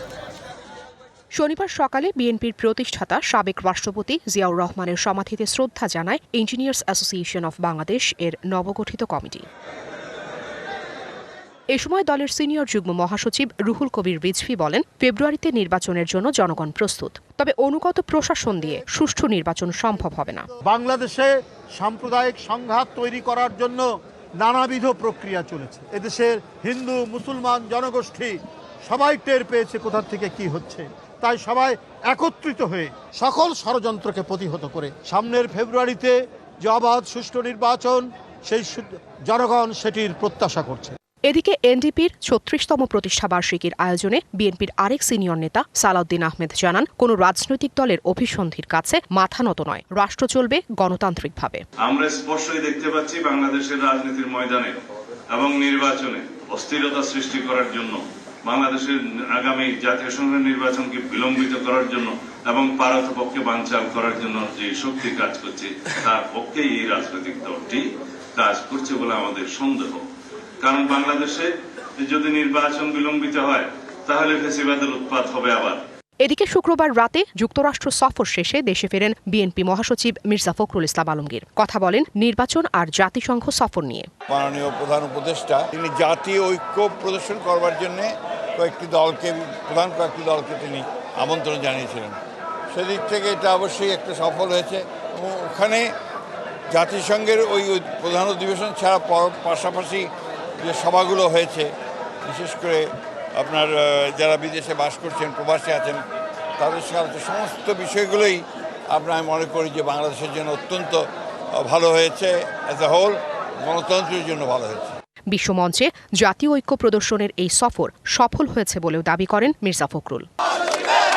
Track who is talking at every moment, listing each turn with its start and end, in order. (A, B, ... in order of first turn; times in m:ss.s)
0:01.4-0:09.4 A
0:11.7-0:20.5 A
0:20.6-0:23.9 B
0:24.4-0:40.9 B
0:41.3-0:51.6 A
0:51.8-0:54.8 C
0:55.3-1:07.8 C
1:08.4-1:10.0 C
1:10.6-1:15.8 C
1:16.2-1:24.1 A
1:24.3-1:32.2 D
1:32.7-1:35.9 D
1:36.7-1:40.1 D
1:40.6-1:41.7 D
1:42.2-1:42.8 D
1:43.4-1:46.0 D
1:46.6-1:51.0 D
1:51.6-1:55.0 D
1:55.3-2:00.3 A